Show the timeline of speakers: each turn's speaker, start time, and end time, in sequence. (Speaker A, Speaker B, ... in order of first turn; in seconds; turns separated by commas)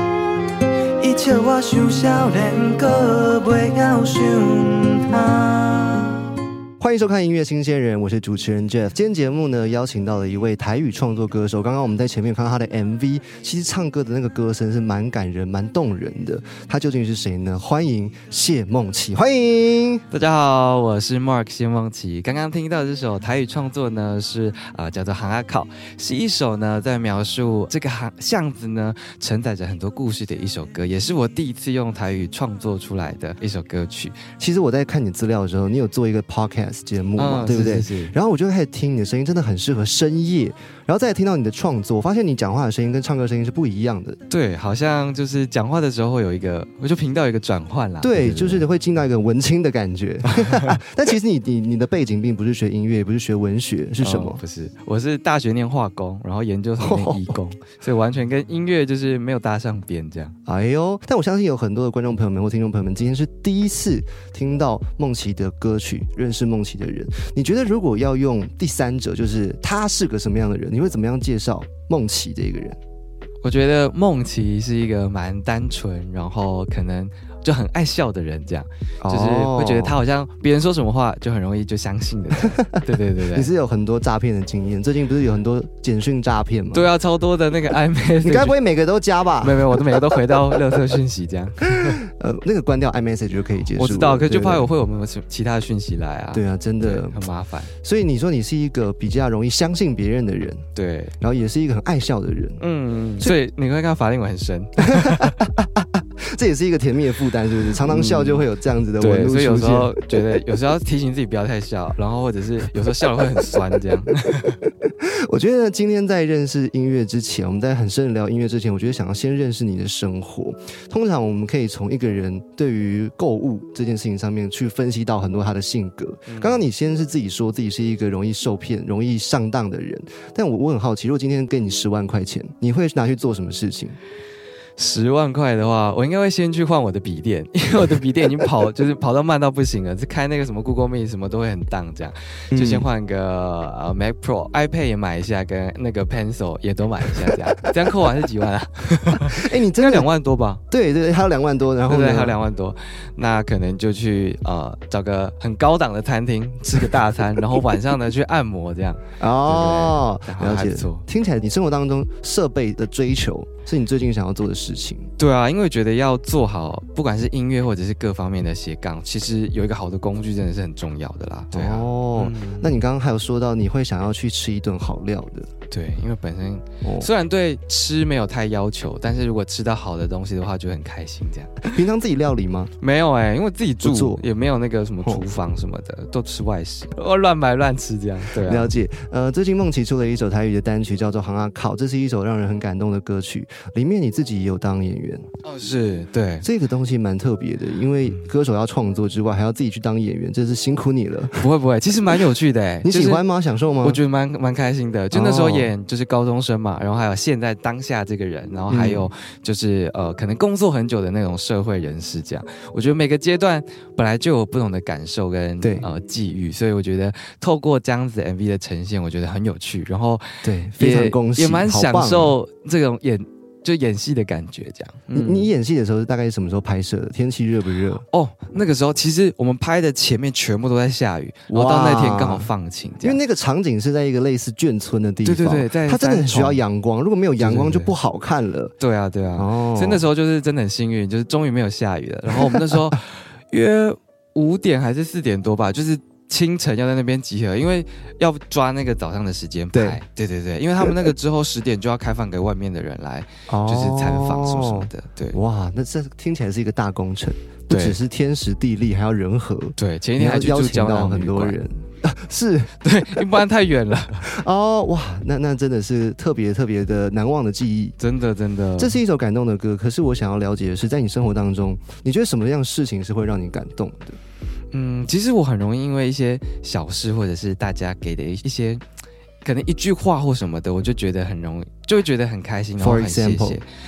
Speaker A: 1.0-6.3, Speaker B: 6.8-20.0, Speaker C: 20.1-34.2, Speaker B: 34.4-44.2, Speaker C: 37.2-38.1, Speaker C: 44.3-48.6, Speaker B: 48.0-54.4, Speaker C: 50.3-50.8, Speaker C: 54.0-60.3, Speaker B: 56.8-57.4, Speaker B: 60.5-72.8, Speaker C: 73.4-83.5, Speaker B: 79.0-80.0, Speaker B: 82.4-86.9, Speaker C: 86.7-88.6, Speaker B: 88.2-90.5, Speaker C: 89.4-92.0, Speaker B: 91.6-94.7, Speaker C: 93.8-97.7, Speaker B: 96.3-97.2, Speaker B: 97.8-100.6, Speaker C: 100.7-101.1, Speaker B: 101.2-102.6, Speaker C: 102.6-105.4, Speaker B: 104.8-110.2, Speaker C: 107.8-108.5, Speaker C: 109.0-114.6, Speaker B: 114.8-134.0, Speaker C: 126.3-126.6, Speaker C: 134.8-150.6, Speaker B: 142.5-142.9, Speaker B: 149.1-150.1, Speaker B: 150.7-152.4, Speaker C: 151.9-161.1, Speaker B: 159.2-165.1, Speaker C: 165.2-172.8, Speaker B: 171.5-175.5, Speaker C: 175.7-181.7, Speaker B: 176.8-177.1, Speaker B: 181.6-182.7, Speaker C: 182.8-188.7, Speaker B: 183.8-184.2, Speaker B: 188.3-195.2, Speaker C: 195.4-196.4, Speaker B: 196.4-201.4, Speaker C: 201.4-203.2, Speaker B: 202.8-204.0, Speaker C: 203.8-225.5, Speaker B: 205.1-205.7, Speaker B: 208.7-209.1, Speaker B: 215.6-215.9, Speaker B: 220.4-222.3, Speaker B: 225.1-228.0, Speaker C: 228.1-233.2, Speaker B: 231.5-232.5, Speaker B: 233.0-238.7, Speaker C: 235.2-236.6, Speaker C: 237.4-237.9, Speaker C: 238.8-255.4, Speaker B: 239.3-240.1, Speaker B: 242.4-242.8, Speaker B: 249.7-250.0, Speaker B: 250.8-251.1, Speaker B: 253.5-263.4, Speaker C: 257.7-258.0, Speaker C: 259.8-261.6, Speaker C: 262.8-264.3, Speaker B: 264.2-267.9, Speaker C: 268.0-268.9, Speaker B: 268.8-274.2, Speaker C: 274.7-278.8, Speaker C: 279.4-283.6, Speaker B: 282.8-283.6